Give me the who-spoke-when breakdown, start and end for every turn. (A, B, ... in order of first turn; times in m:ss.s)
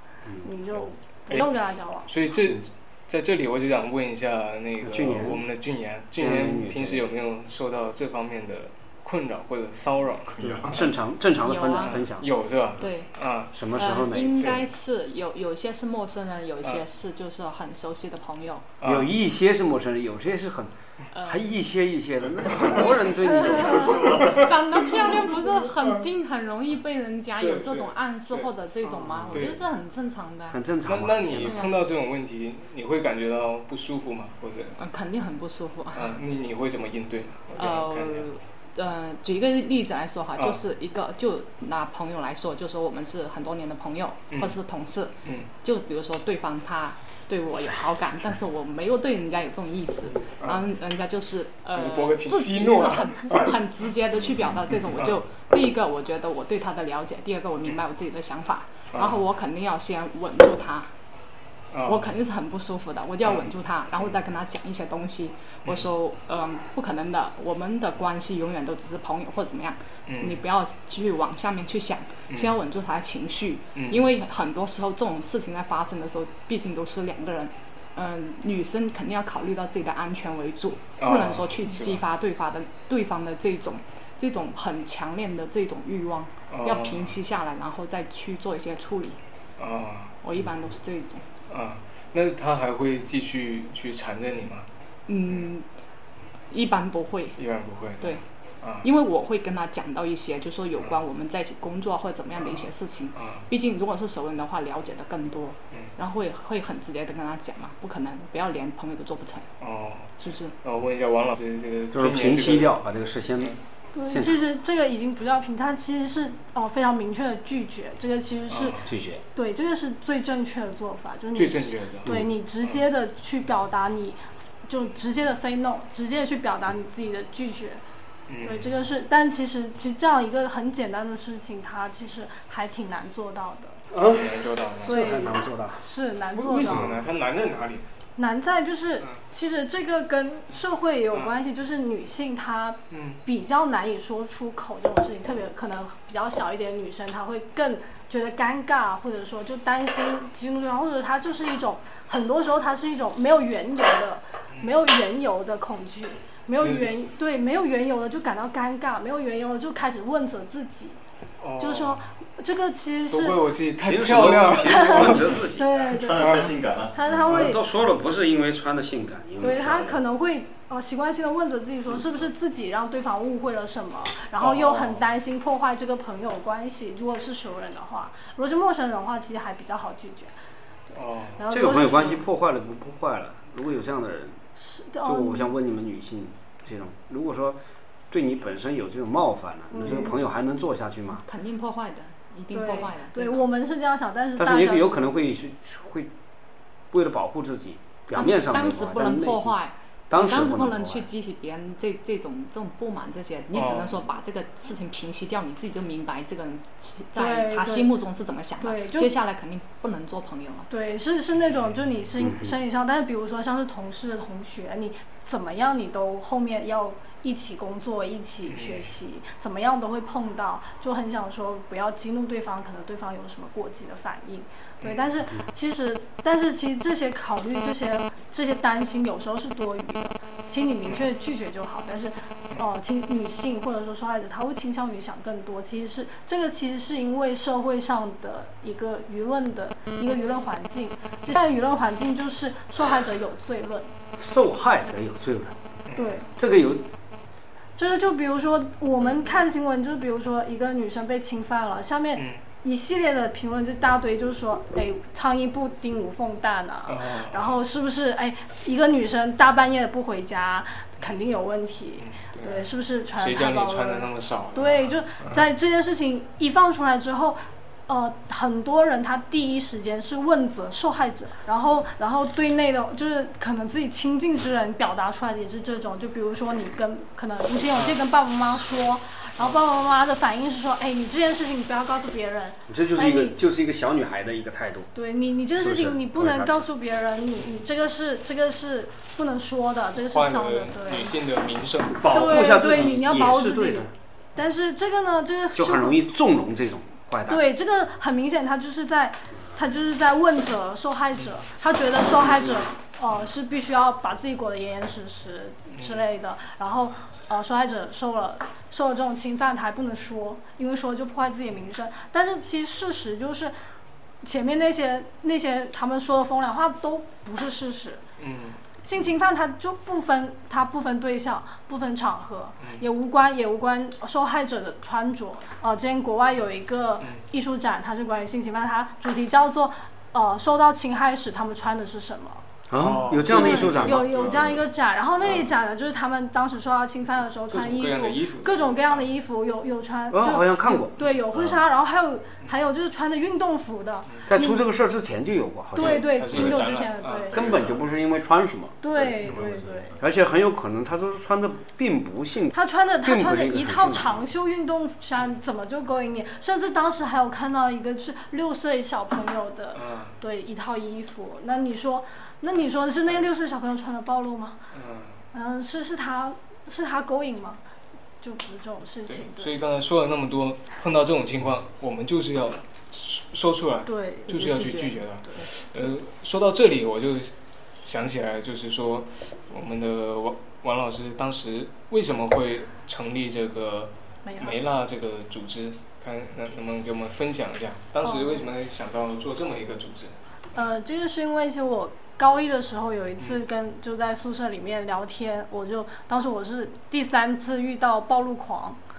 0:00.4-0:02.1 A
0:01.3-0:10.9 B
0:04.8-0:05.4 C
0:06.2-0:07.0 C
0:10.3-0:10.8 D
0:10.4-0:12.3 C
0:11.4-0:12.0 E
0:11.8-0:14.7 B
0:12.8-0:13.1 E
0:13.5-0:14.6 C
0:13.7-0:18.7 E
0:18.8-0:19.2 B
0:18.8-0:24.3 C
0:21.1-0:21.5 E
0:22.6-0:30.6 E
0:23.7-0:24.5 B
0:25.1-0:25.8 B
0:27.3-0:29.7 B
0:28.8-0:29.5 C
0:30.5-0:31.6 C
0:30.8-0:34.8 B
0:31.4-0:31.8 E
0:34.8-0:36.2 E
0:35.9-0:38.3 B
0:37.6-1:00.9 E
0:44.3-0:44.6 B
0:45.2-0:45.5 B
0:50.4-0:50.7 B
0:51.7-0:53.7 B
0:54.9-0:55.2 B
0:58.9-0:59.2 B
1:01.7-1:02.2 B
1:01.8-1:29.2 E
1:05.6-1:05.9 B
1:10.1-1:10.4 B
1:12.3-1:12.6 B
1:13.7-1:14.1 B
1:21.0-1:22.0 B
1:26.5-1:27.2 B
1:29.6-1:30.2 B
1:30.2-1:31.2 E
1:31.5-1:34.7 B
1:35.1-1:35.6 E
1:36.5-1:37.4 E
1:37.4-1:38.9 B
1:38.8-1:49.5 E
1:42.4-1:43.5 B
1:49.6-1:52.8 B
1:50.2-1:50.5 E
1:51.9-1:54.4 C
1:53.9-1:58.8 A
1:58.5-1:58.9 B
1:58.8-1:59.2 C
1:59.3-2:07.8 A
2:01.3-2:02.8 B
2:02.0-2:02.3 C
2:08.3-2:08.7 B
2:08.4-2:13.8 A
2:13.9-2:15.8 C
2:14.0-2:15.2 B
2:14.8-2:16.9 A
2:16.3-2:17.8 B
2:16.6-2:17.0 C
2:18.2-2:41.0 A
2:22.9-2:23.2 B
2:34.5-2:34.8 B
2:36.6-2:36.9 B
2:41.4-2:42.0 B
2:41.6-2:43.5 A
2:43.1-2:45.4 B
2:43.8-2:45.8 C
2:44.5-2:46.4 A
2:45.9-2:47.2 D
2:46.9-2:47.6 A
2:47.2-2:50.0 C
2:49.4-3:00.3 A
2:54.4-2:55.0 B
3:00.9-3:01.4 B
3:01.4-3:02.2 A
3:01.5-3:04.4 C
3:04.6-3:05.5 A
3:05.0-3:07.6 C
3:08.1-3:11.2 C
3:09.7-3:10.2 A
3:11.2-3:13.5 E
3:12.5-3:15.1 A
3:14.4-3:16.1 C
3:16.9-3:19.6 C
3:18.1-3:30.7 E
3:20.1-3:21.1 C
3:23.5-3:24.0 B
3:27.2-3:28.0 A
3:28.6-3:29.1 A
3:30.7-4:03.9 A
3:31.4-3:31.8 B
3:32.2-3:32.6 C
3:38.5-3:38.9 B
4:04.2-4:05.6 C
4:05.9-4:06.1 B
4:05.9-4:06.3 A
4:06.4-4:06.9 C
4:07.8-4:43.4 A
4:16.9-4:17.5 B
4:22.0-4:25.4 B
4:42.7-4:44.9 C
4:44.9-4:51.1 A
4:45.6-4:46.6 C
4:50.1-4:52.1 B
4:52.0-4:53.9 C
4:52.0-4:56.0 A
4:55.5-4:57.4 C
4:57.3-5:13.5 A
5:05.7-5:06.0 B
5:14.2-5:18.0 A
5:18.2-5:18.6 B
5:18.8-5:32.4 A
5:32.7-5:34.6 C
5:32.7-5:34.5 B
5:33.2-5:44.6 A
5:37.5-5:39.0 B
5:40.1-5:40.9 C
5:41.3-5:41.6 D
5:44.3-5:46.6 C
5:45.7-5:47.4 A
5:45.7-5:47.3 B
5:47.3-5:47.8 D
5:47.3-5:49.2 C
5:48.8-5:49.9 A
5:49.2-5:50.0 D
5:50.0-5:54.2 C
5:52.5-6:04.6 A
5:59.7-6:00.2 B
6:04.7-6:05.2 B
6:05.3-6:07.6 A
6:08.2-6:09.5 A
6:09.1-6:30.6 B
6:13.8-6:14.3 A
6:14.3-6:15.0 E
6:24.2-6:24.6 A
6:28.0-6:28.4 A
6:30.5-6:38.8 A